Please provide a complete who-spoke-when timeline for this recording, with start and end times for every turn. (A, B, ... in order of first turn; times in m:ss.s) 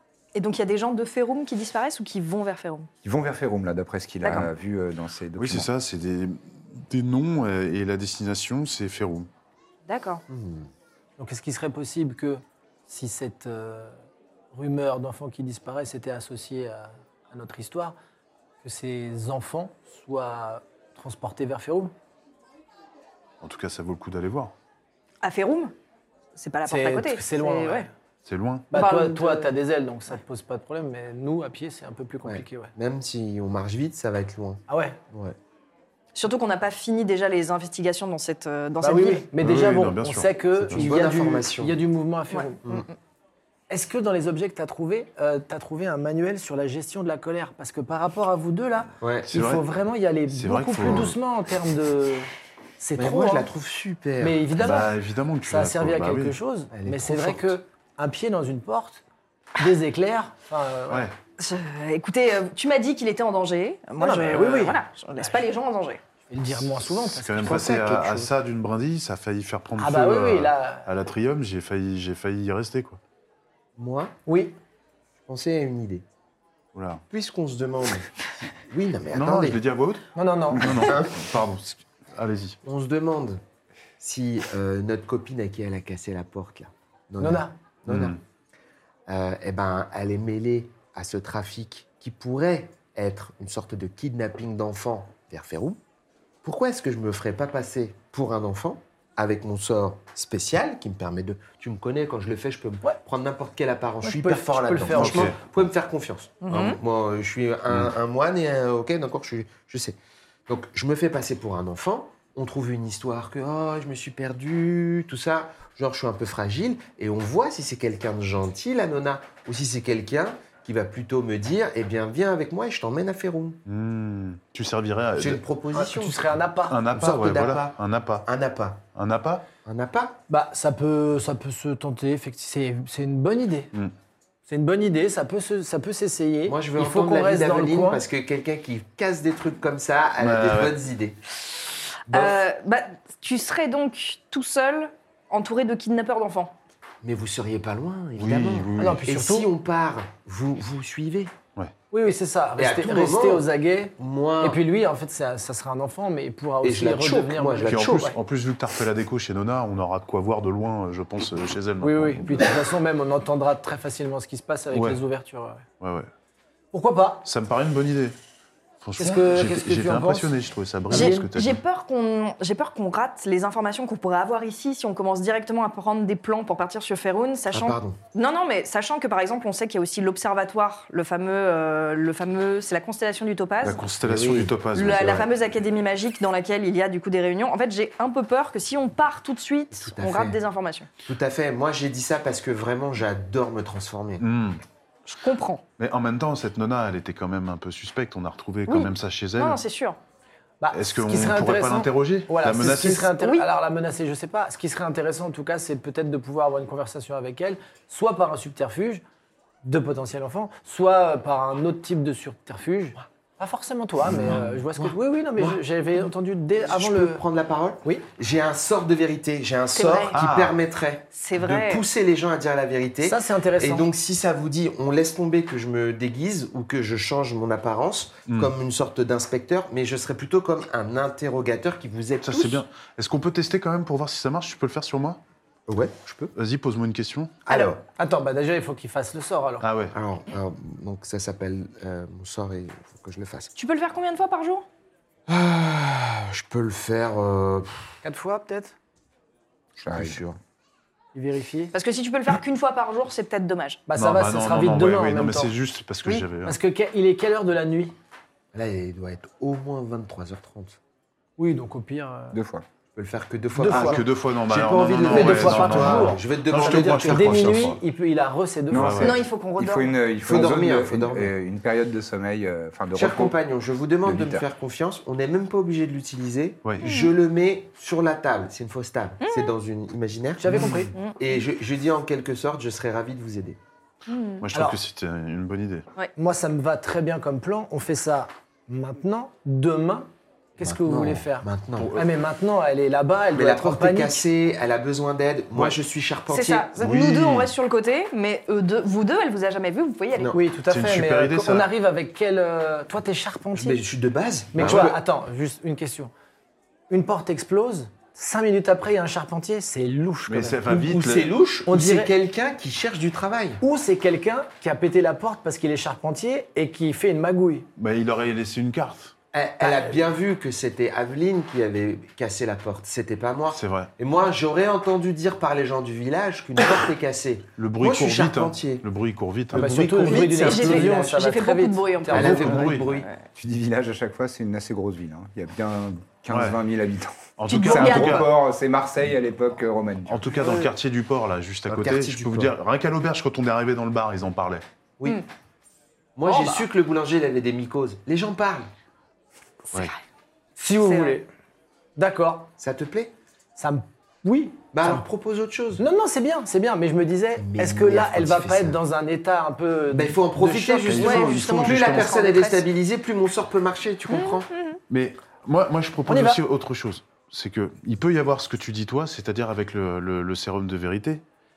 0:00.4-0:02.9 A
0:03.0-0:05.7 B
0:04.2-0:04.5 A
0:05.4-0:09.3 C
0:09.9-0:10.2 A
0:10.3-0:10.7 D
0:11.2-0:13.9 E
0:14.5-0:18.0 E
0:18.6-0:21.9 E
0:23.4-0:24.5 C
0:25.2-0:25.7 A
0:26.4-0:27.9 A
0:26.7-0:27.9 E
0:28.2-0:28.7 C
0:28.7-0:32.7 E
0:28.7-0:29.5 A
0:32.2-0:35.4 D
0:34.7-0:35.0 E
0:36.2-0:39.3 A
0:38.8-0:42.6 E
0:39.4-0:40.9 C
0:40.7-0:41.8 D
0:42.3-0:42.8 A
0:43.7-0:53.5 E
0:49.0-0:49.3 D
0:49.3-0:49.7 C
0:50.3-0:51.2 C
0:53.0-0:54.5 D
0:54.2-0:54.9 E
0:54.6-0:56.4 C
0:55.4-0:59.0 E
0:56.7-0:57.6 D
0:59.6-1:01.1 E
1:00.9-1:01.2 C
1:01.4-1:06.0 A
1:04.0-1:05.4 E
1:06.3-1:07.8 E
1:06.6-1:13.0 C
1:07.4-1:08.3 D
1:09.8-1:10.9 E
1:13.8-1:14.1 D
1:14.3-1:14.6 E
1:15.3-1:16.0 D
1:16.7-1:17.0 C
1:17.1-1:19.6 D
1:19.1-1:22.6 C
1:20.2-1:20.9 E
1:20.8-1:21.1 D
1:22.6-1:23.4 D
1:24.0-1:28.2 D
1:27.2-1:27.6 E
1:27.9-1:28.2 C
1:29.1-1:35.8 D
1:36.4-2:03.6 D
1:44.0-1:45.4 E
1:45.0-1:45.5 C
1:46.4-1:46.8 A
2:03.7-2:05.4 C
2:05.2-2:06.4 D
2:05.7-2:06.8 E
2:06.7-2:08.3 C
2:06.9-2:08.8 D
2:08.9-2:09.5 C
2:09.6-2:10.2 D
2:10.3-2:13.7 E
2:14.5-2:18.0 E
2:16.5-2:21.2 D
2:20.2-2:20.8 C
2:22.1-2:26.5 A
2:22.1-2:22.4 D
2:27.0-2:31.3 D
2:28.2-2:29.1 C
2:28.8-2:29.5 E
2:31.9-2:38.2 E
2:32.6-2:34.6 D
2:36.6-2:38.1 D
2:37.7-2:42.5 C
2:41.8-2:45.6 E
2:44.7-2:45.0 C
2:45.8-2:46.1 C
2:46.7-2:47.3 E
2:47.2-2:48.2 C
2:48.8-2:51.6 C
2:49.0-2:50.4 E
2:50.9-2:51.3 E
2:50.9-3:03.8 A
2:57.5-2:58.0 D
3:03.6-3:05.3 C
3:04.0-3:04.5 D
3:04.7-3:10.9 A
3:09.7-3:10.4 D
3:11.1-3:14.3 D
3:14.2-3:14.6 C
3:15.1-3:15.6 A
3:15.8-3:19.6 C
3:18.7-3:20.0 A
3:20.6-3:29.0 E
3:20.7-3:23.1 C
3:23.2-3:23.4 A
3:29.6-3:37.2 E
3:34.0-3:35.6 D
3:36.6-3:52.6 D
3:39.8-3:40.2 A
3:40.1-3:40.6 C
3:41.1-3:41.9 A
3:43.0-3:43.9 E
3:52.2-3:55.2 C
3:55.7-3:56.0 D
3:56.1-3:56.3 B
3:56.3-3:57.4 C
3:57.5-3:57.8 D
3:58.0-3:59.7 E
3:59.6-4:00.0 C
3:59.9-4:03.5 D
4:03.6-4:04.7 A
4:05.3-4:07.9 D
4:08.0-4:08.8 E
4:09.8-4:10.2 B
4:09.9-4:10.4 D
4:11.1-4:11.7 E
4:11.7-4:13.8 A
4:13.9-4:15.5 E
4:14.0-4:16.6 C
4:16.1-4:18.0 E
4:18.5-4:20.8 D
4:21.4-4:22.4 E
4:22.3-4:22.6 B
4:23.0-4:27.7 D
4:23.6-4:24.0 E
4:23.7-4:27.8 C
4:25.1-4:29.0 E
4:28.7-4:29.2 C
4:28.7-4:33.4 B
4:29.0-4:30.0 A
4:30.2-4:31.3 D
4:32.9-4:43.6 D
4:34.0-4:34.4 B
4:36.6-4:36.9 C
4:36.8-4:37.1 A
4:39.2-4:39.6 A
4:40.4-4:40.9 E
4:40.6-4:40.9 C
4:44.1-4:44.4 A
4:44.4-4:45.9 C
4:44.5-4:44.8 E
4:46.2-4:54.2 E
4:50.6-4:51.9 D
4:51.8-4:52.1 C
4:53.3-4:56.7 D
4:56.3-5:00.4 A
4:56.8-4:57.5 C
5:00.1-5:00.4 D
5:00.3-5:03.8 E
5:00.7-5:01.7 C
5:03.5-5:05.0 D
5:04.5-5:06.1 E
5:06.9-5:10.9 E
5:10.3-5:11.3 C
5:10.7-5:13.6 D
5:11.7-5:12.1 E
5:13.6-5:17.7 E
5:17.8-5:19.1 C
5:19.3-5:28.8 D
5:19.6-5:19.9 E
5:23.5-5:23.9 C
5:27.6-5:30.0 C
5:29.5-5:31.2 D
5:29.5-5:32.8 E
5:30.0-5:33.2 A
5:32.1-5:33.1 D
5:32.1-5:32.9 C
5:33.4-5:40.3 B
5:36.3-5:36.6 C
5:37.4-5:38.3 C
5:37.5-5:38.3 A
5:40.1-5:44.6 C
5:40.4-5:40.6 A
5:41.7-5:42.5 D
5:46.2-5:48.7 D
5:46.3-5:46.6 E
5:49.7-5:50.0 A
5:50.6-5:51.3 E
5:50.8-5:51.2 A
5:52.0-5:52.5 E
5:52.6-5:53.1 D
5:53.6-5:55.0 E
5:54.7-5:55.8 D
5:55.8-6:01.5 E
5:57.4-5:58.8 D
5:59.9-6:04.5 D
6:00.9-6:02.1 C
6:01.0-6:02.7 A
6:04.1-6:04.8 A
6:04.9-6:11.2 C
6:06.1-6:06.4 E